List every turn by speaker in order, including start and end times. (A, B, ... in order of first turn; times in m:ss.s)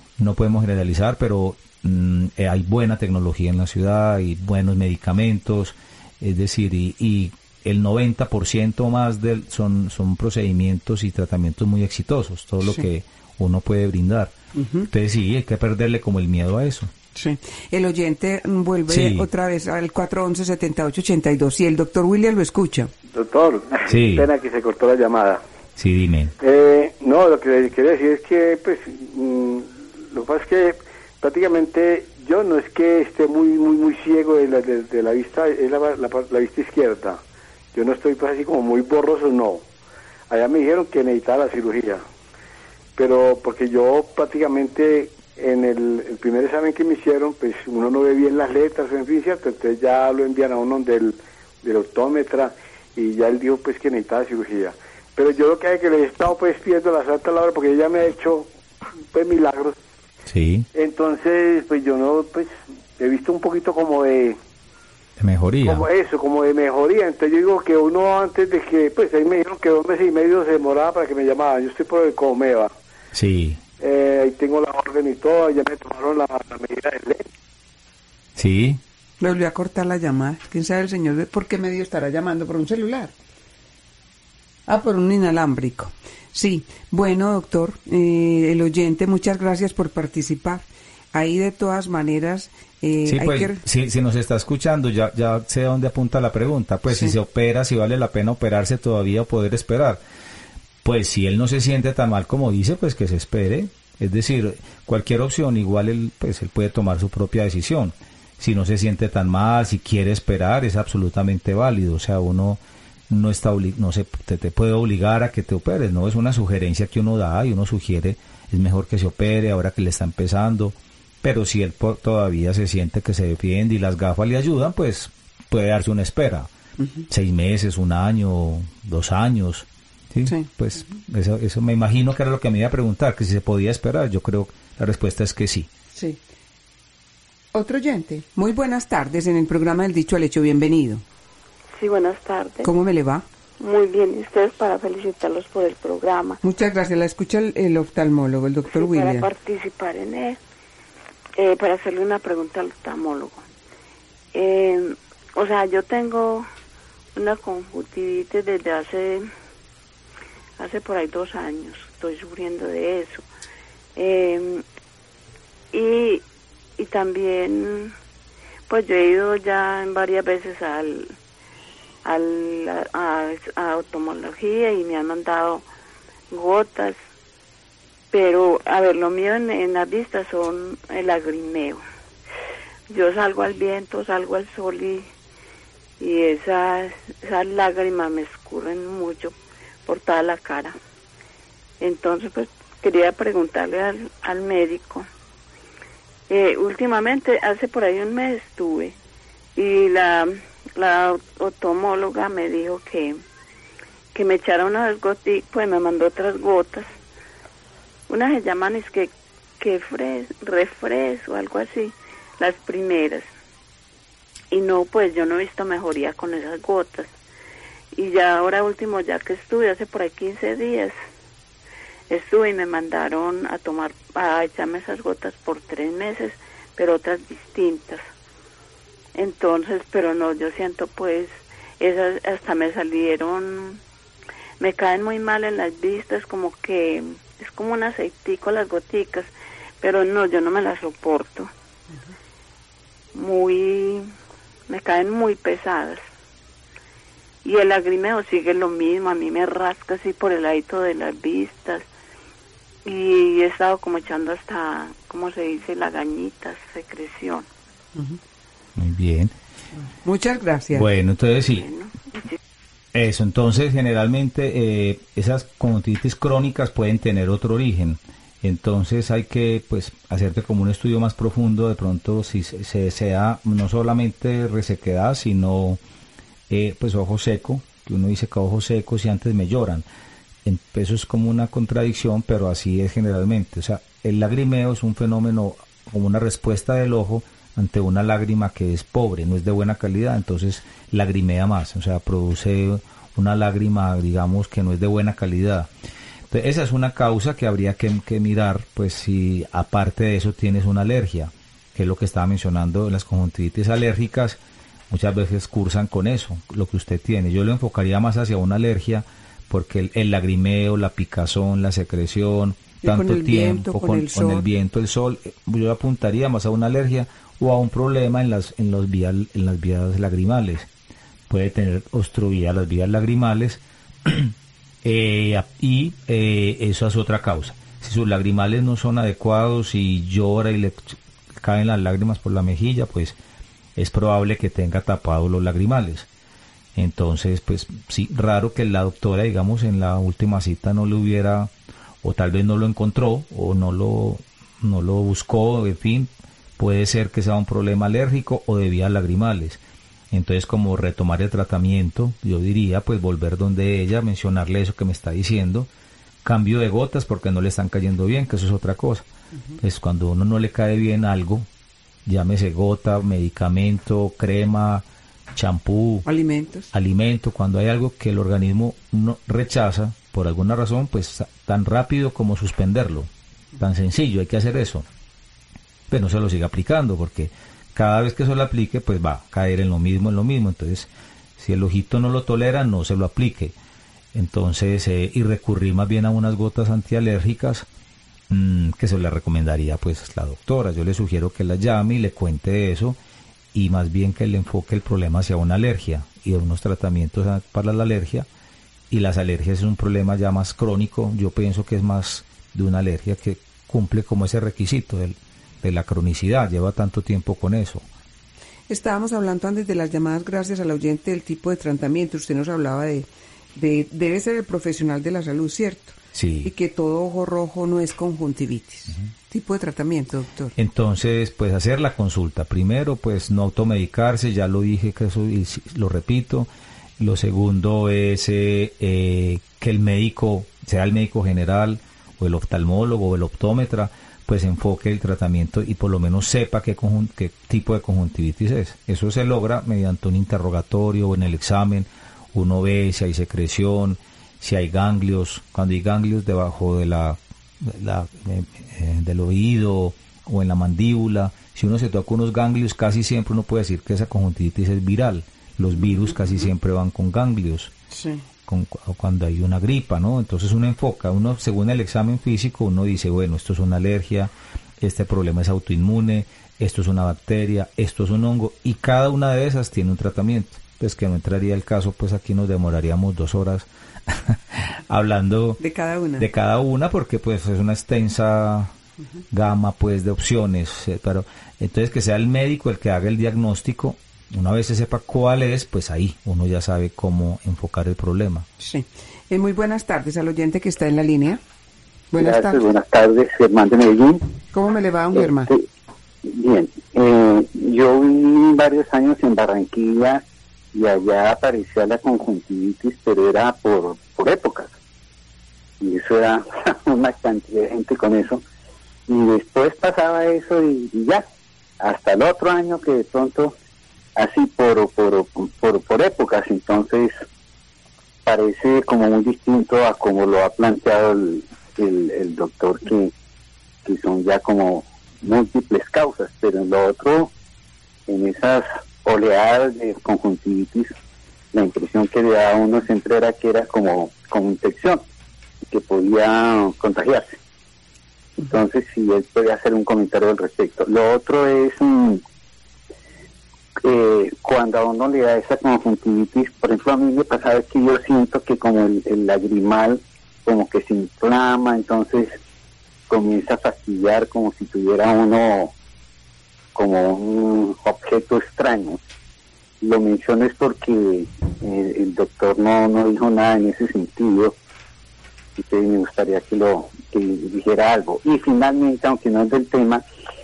0:00.2-0:14.3 A
0:14.5-0:14.9 B
0:14.9-0:16.9 A
0:17.2-0:22.9 B
0:18.9-0:19.3 A
0:23.1-0:25.4 C
0:23.9-0:24.3 A
0:25.8-0:26.3 A
0:26.4-0:37.2 C
0:37.7-0:39.6 C
0:40.3-0:42.0 C
0:43.0-0:58.5 C
0:59.1-0:59.8 C
1:00.3-1:00.7 A
1:00.7-1:04.4 C
1:05.2-1:05.9 A
1:05.6-1:12.7 C
1:13.1-1:13.6 A
1:13.8-1:17.2 C
1:18.4-1:18.8 A
1:19.2-1:23.1 B
1:24.7-1:33.6 B
1:33.0-1:40.0 A
1:40.8-2:06.5 A
2:06.8-2:07.1 B
2:07.1-2:15.7 A
2:15.9-2:16.2 B
2:17.5-2:21.0 B
2:21.8-2:22.7 D
2:22.6-2:23.2 B
2:23.6-2:26.4 D
2:26.4-2:29.3 B
2:28.7-2:30.4 D
2:31.4-2:33.4 D
2:34.3-2:36.4 D
2:37.1-2:39.3 D
2:40.6-2:43.2 D
2:44.0-2:44.6 D
2:45.7-2:46.2 D
2:46.8-2:47.9 D
2:48.7-2:51.1 D
2:52.0-2:55.6 D
2:56.3-2:57.0 D
2:58.1-3:01.8 D
3:02.9-3:05.0 D
3:06.0-3:09.3 D
3:09.8-3:10.8 D
3:11.8-3:15.0 D
3:16.3-3:18.9 D
3:19.6-3:23.2 D
3:24.1-3:26.9 D
3:28.1-3:33.3 D
3:34.5-3:37.1 D
3:37.9-3:40.9 D
3:42.1-3:48.0 D
3:49.1-3:53.8 D
3:54.6-4:01.5 D
4:03.1-4:04.1 D
4:04.7-4:06.0 D
4:07.4-4:11.8 D
4:12.8-4:17.5 D
4:18.8-4:19.3 A
4:19.9-4:20.9 B
4:20.7-4:21.7 A
4:21.4-4:22.4 D
4:22.9-4:35.8 A
4:36.5-4:39.8 A
4:40.4-4:55.7 A
4:56.3-5:04.4 A
5:04.9-5:20.7 A
5:12.8-5:14.4 B
5:21.3-5:33.2 A
5:33.8-5:36.1 A
5:36.7-5:41.5 A
5:42.0-5:49.6 A
5:50.1-5:55.7 A
5:56.2-5:59.1 A
5:59.6-6:01.5 A
6:02.0-6:06.0 A
6:06.0-6:06.7 B
6:06.7-6:14.8 A
6:15.9-6:23.5 A
6:24.1-6:27.7 A
6:28.3-6:33.0 A
6:33.5-6:38.3 A
6:38.9-6:47.8 A
6:48.7-7:00.5 B
6:56.1-6:56.5 A
7:00.6-7:37.7 A
7:35.8-7:36.2 B
7:37.9-7:38.2 B
7:38.4-7:55.6 A
7:55.6-7:56.3 B
7:56.2-7:58.7 A
7:59.3-8:08.5 A
8:08.6-8:11.4 B
8:12.1-8:12.6 B
8:12.2-8:14.2 E
8:14.5-8:15.5 B
8:15.1-8:15.6 E
8:16.2-8:24.7 E
8:25.8-8:28.4 E
8:29.1-8:31.2 E
8:31.8-8:33.5 E
8:34.2-8:37.1 E
8:38.2-8:43.1 E
8:43.8-8:47.3 E
8:48.1-8:50.9 E
8:51.5-8:55.0 E
8:55.7-8:57.4 E
8:58.4-9:02.2 E
9:03.8-9:12.4 E
9:13.1-9:15.7 E
9:16.7-9:19.0 E
9:19.8-9:24.5 E
9:25.6-9:30.0 E